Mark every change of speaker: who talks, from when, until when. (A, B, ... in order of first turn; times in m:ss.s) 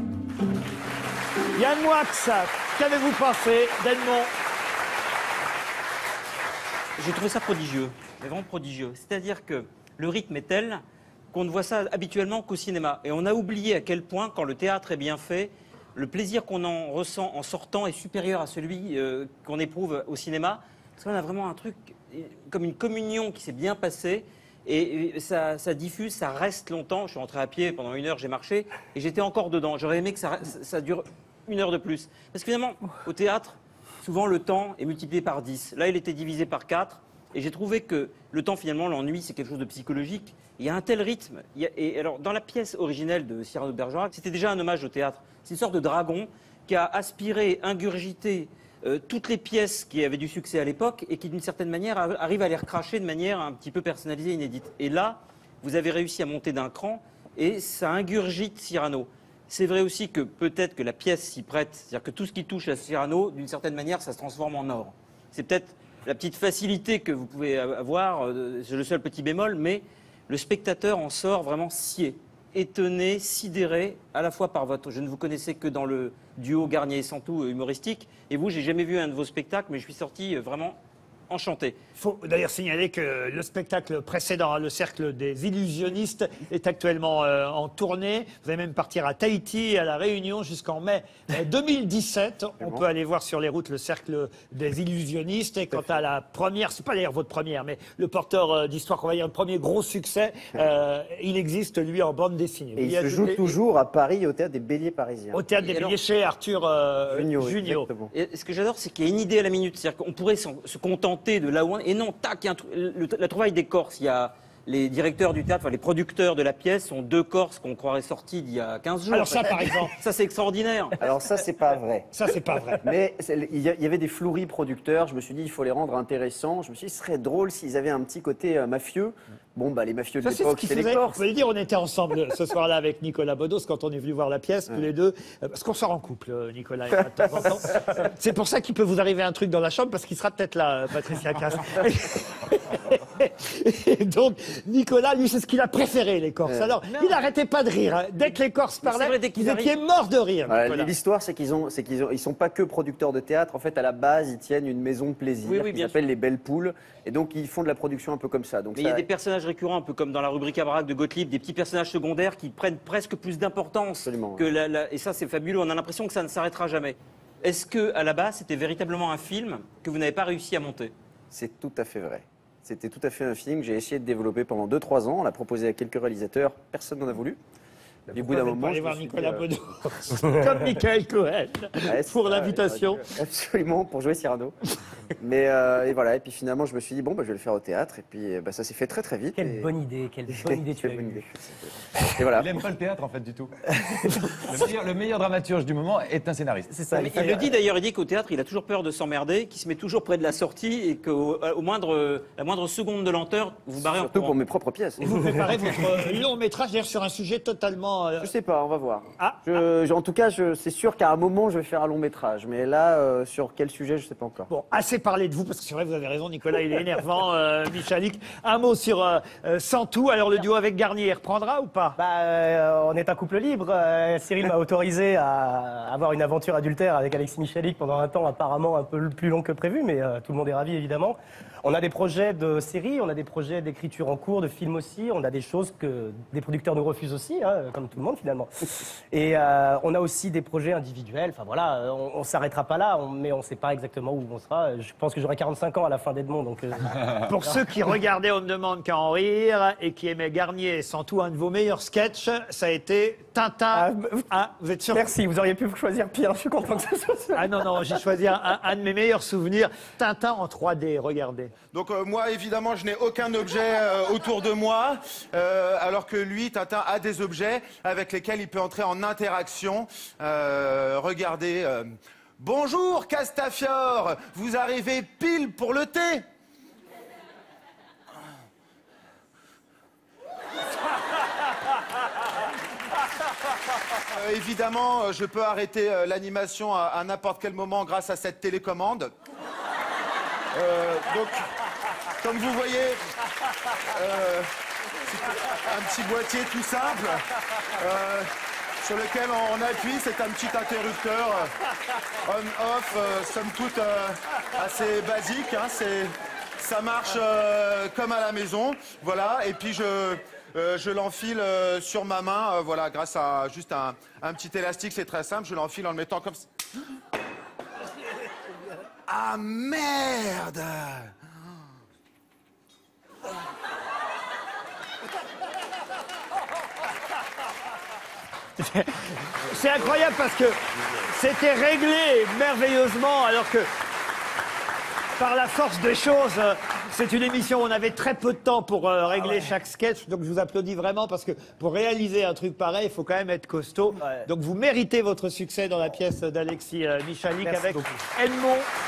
0:01.6-0:04.3 A
0:07.0-1:20.8 B
1:21.3-1:21.8 B
1:22.0-1:43.6 A
1:35.7-1:36.0 C
1:42.8-1:45.4 C
1:45.3-1:47.9 A
1:45.6-1:45.9 B
1:47.1-1:48.1 C
1:48.1-2:01.0 B
1:59.1-1:59.9 A
2:01.0-2:02.1 C
2:02.1-2:02.9 A
2:02.8-2:11.2 C
2:10.2-2:30.9 A
2:26.4-2:26.8 C
2:28.8-2:29.8 B
2:30.5-2:39.0 C
2:35.4-2:36.0 B
2:38.8-2:50.9 B
2:44.0-2:44.5 C
2:51.3-2:57.4 C
2:58.1-3:03.0 A
2:58.1-2:59.5 C
3:01.8-3:04.5 C
3:05.2-3:09.7 C
3:09.3-3:11.2 D
3:10.3-3:12.6 C
3:12.2-3:17.4 E
3:16.7-3:17.5 D
3:16.9-3:24.4 B
3:23.8-3:25.0 C
3:25.0-3:28.3 A
3:28.2-3:34.5 C
3:29.2-3:29.4 A
3:34.5-3:42.0 A
3:42.0-4:07.6 D
4:07.2-4:15.1 A
4:13.7-4:14.3 D
4:14.9-4:18.0 D
4:17.3-4:21.5 A
4:21.7-4:31.9 F
4:32.4-4:36.2 F
4:44.1-4:49.1 F
4:50.5-4:51.4 F
4:52.2-4:53.0 F
4:53.9-4:54.4 F
4:55.1-4:57.2 F
4:57.8-4:58.3 F
4:58.8-5:01.5 F
5:02.2-5:16.5 F
5:19.1-5:21.1 F
5:28.6-5:33.7 A
5:35.2-5:48.7 A
5:39.2-5:39.5 D
5:44.0-5:44.3 D
5:47.4-5:48.0 D